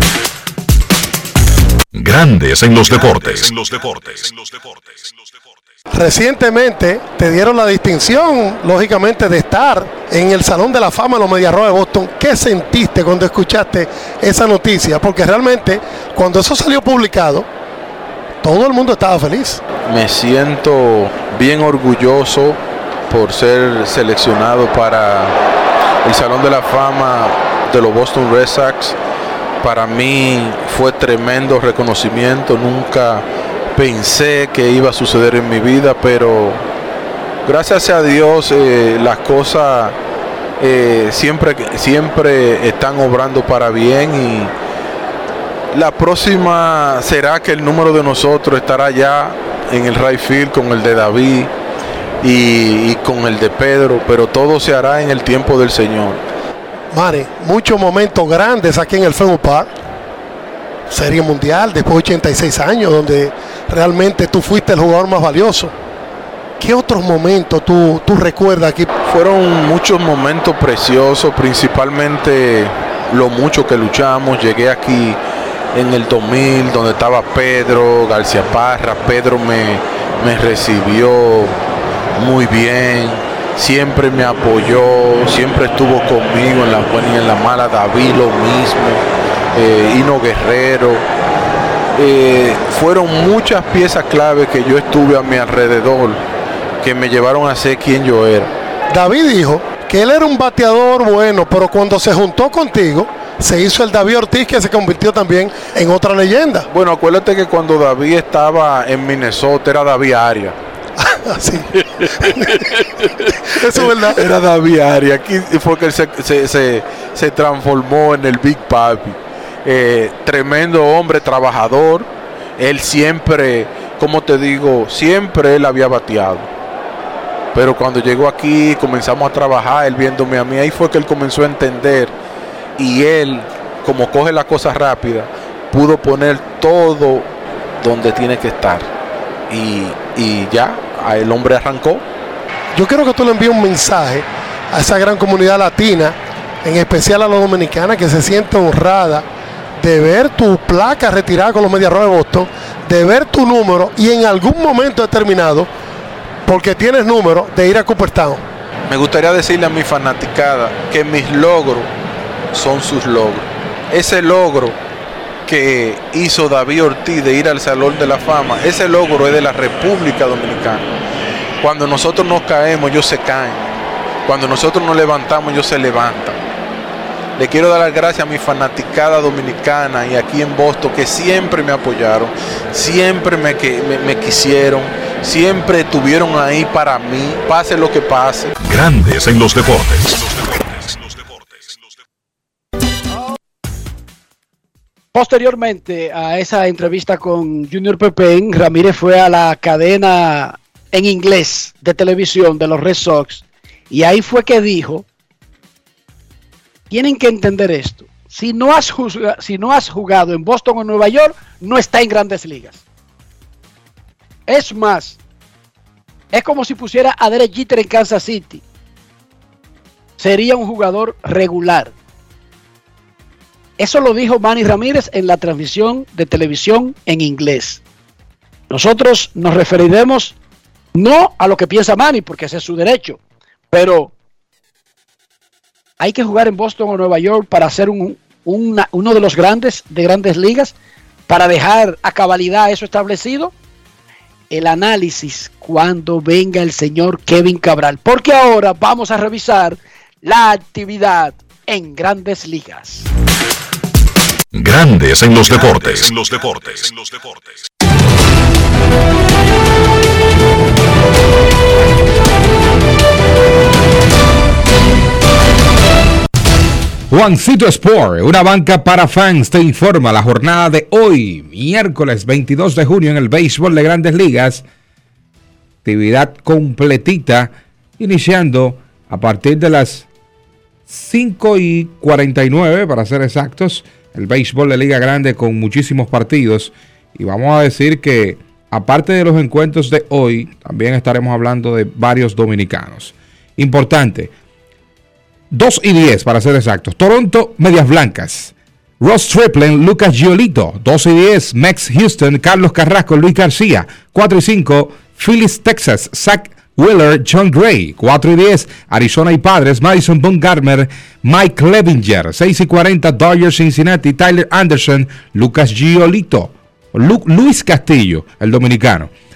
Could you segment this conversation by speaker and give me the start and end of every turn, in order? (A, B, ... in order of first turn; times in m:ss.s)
0:01.9-0:05.3 A
0:05.9-0:17.4 B
0:18.4-0:19.6 B
0:19.8-0:25.4 C
0:26.0-0:29.0 C
0:29.6-0:33.2 C
0:33.7-0:36.6 C
0:37.4-0:40.0 C
0:40.6-0:44.5 C
0:45.7-0:51.5 C
0:52.2-0:56.2 C
0:56.9-0:59.7 B
1:00.9-1:05.7 B
1:06.6-1:08.9 B
1:09.0-1:15.2 C
1:15.7-1:21.6 C
1:22.1-1:31.0 C
1:32.0-1:36.2 C
1:36.8-1:38.5 C
1:38.9-1:46.6 B
1:46.7-1:50.6 C
1:51.1-1:51.7 B
1:51.7-1:53.0 C
1:53.6-2:06.5 C
1:53.6-1:54.2 B
2:07.5-2:12.1 C
2:12.8-2:17.3 C
2:17.8-2:18.9 C
2:19.5-2:22.0 C
2:22.7-2:29.3 B
2:29.8-2:35.7 B
2:36.4-2:38.4 B
2:38.9-2:41.9 C
2:42.5-2:44.8 C
2:45.4-2:50.9 C
2:51.6-2:53.7 C
2:54.3-2:56.4 C
2:57.4-3:08.6 C
3:08.6-3:11.8 A
3:15.1-3:25.0 D
3:26.9-3:32.8 D
3:34.5-3:35.2 D
3:36.3-3:38.6 D
3:40.2-3:41.9 D
3:43.8-3:47.8 D
3:48.7-3:50.4 D
3:51.0-3:53.2 D
3:53.7-3:54.1 D
3:56.0-4:00.7 D
4:01.3-4:03.5 D
4:04.5-4:13.1 D
4:14.5-4:17.6 A
4:27.1-4:34.6 E
4:35.8-4:40.1 E
4:40.9-4:54.3 E
4:55.5-5:19.1 E